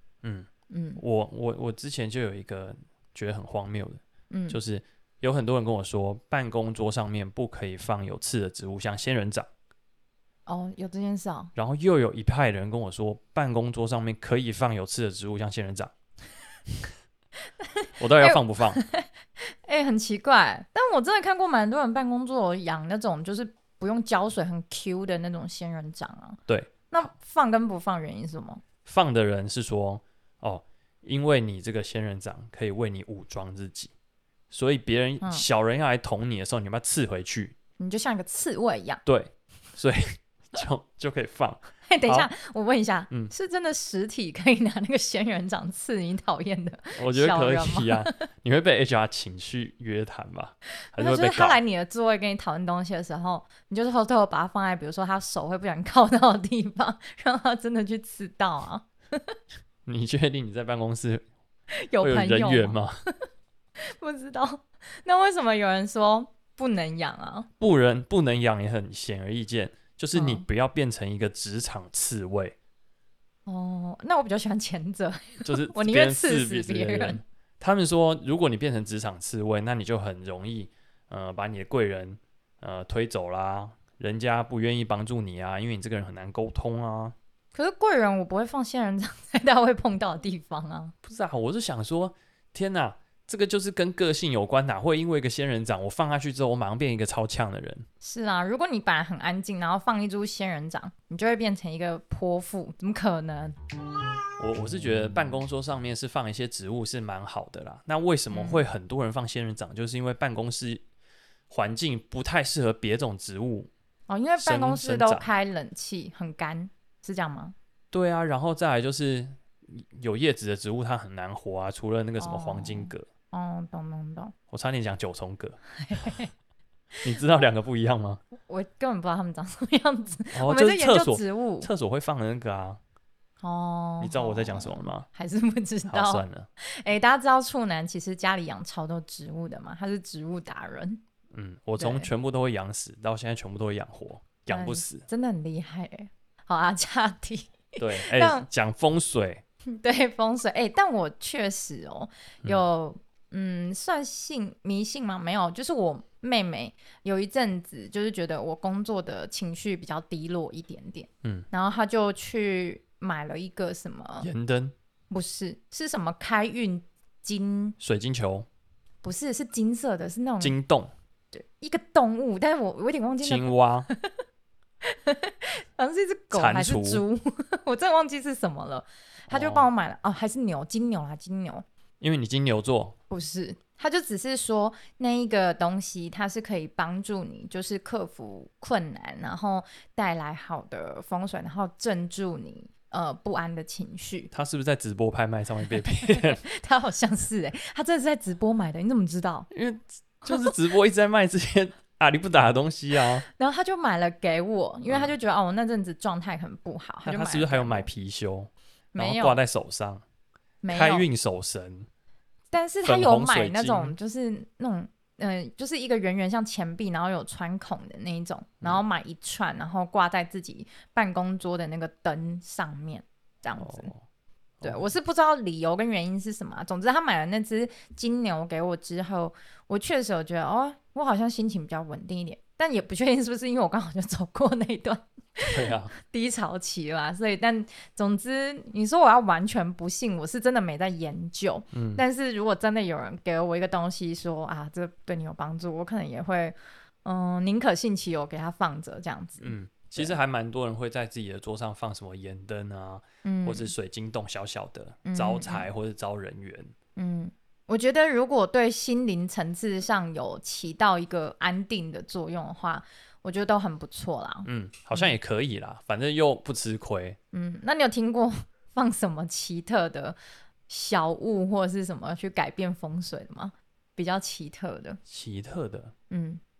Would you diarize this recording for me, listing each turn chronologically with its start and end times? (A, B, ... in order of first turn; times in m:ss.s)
0:00.2-0:09.5 A
0:00.7-0:01.0 B
0:04.3-0:04.6 B
0:10.5-0:11.5 B
0:11.6-0:15.9 A
0:17.6-0:28.6 B
0:18.0-0:18.8 A
0:26.5-0:27.1 A
0:28.8-0:33.9 A
0:34.5-0:37.5 A
0:37.8-0:39.0 B
0:39.0-0:42.3 A
0:41.8-0:48.1 B
0:47.0-0:51.6 A
0:50.8-0:59.3 B
0:59.8-1:01.2 A
1:01.8-1:02.8 B
1:02.0-1:02.9 A
1:03.8-1:07.5 B
1:07.6-1:12.6 A
1:10.1-1:10.4 B
1:13.4-1:17.2 B
1:15.4-1:27.2 A
1:27.5-1:30.9 B
1:31.0-1:37.8 A
1:38.0-1:43.6 B
1:44.4-1:50.8 A
1:48.3-1:48.6 B
1:51.5-1:53.7 A
1:54.1-1:57.5 B
1:54.4-1:55.3 A
1:57.9-2:03.0 A
2:02.2-2:04.3 B
2:04.5-2:06.1 A
2:05.8-2:06.3 B
2:07.0-2:08.2 A
2:08.5-2:11.7 B
2:10.3-2:12.8 A
2:13.4-2:21.0 B
2:14.0-2:15.1 A
2:15.9-2:16.5 A
2:21.3-2:25.0 A
2:21.8-2:22.1 B
2:24.5-2:28.5 B
2:27.8-2:29.4 A
2:29.7-2:44.3 B
2:44.2-2:44.7 A
2:45.1-2:47.8 B
2:47.8-2:48.5 A
2:49.0-2:50.6 B
2:50.4-2:50.9 A
2:51.3-2:54.1 B
2:53.2-2:53.9 A
2:54.8-3:01.6 B
2:56.3-2:57.0 A
2:59.3-2:59.7 A
3:02.0-3:03.0 A
3:03.1-3:14.3 B
3:14.3-3:16.4 A
3:15.8-3:19.5 B
3:19.5-3:23.2 A
3:20.2-3:20.5 B
3:23.3-3:27.9 B
3:27.0-3:30.0 A
3:28.9-3:29.4 B
3:30.6-3:31.1 B
3:30.7-3:31.9 A
3:32.5-3:43.9 B
3:32.8-3:34.0 A
3:43.6-3:44.0 A
3:44.6-3:44.9 A
3:44.6-4:10.2 B
3:55.4-3:55.9 A
4:01.7-4:02.0 A
4:09.4-4:16.7 A
4:13.2-4:13.7 B
4:15.0-4:15.7 B
4:17.0-4:25.1 B
4:24.4-4:27.2 A
4:27.3-4:35.0 B
4:35.1-4:35.9 A
4:36.1-4:36.4 B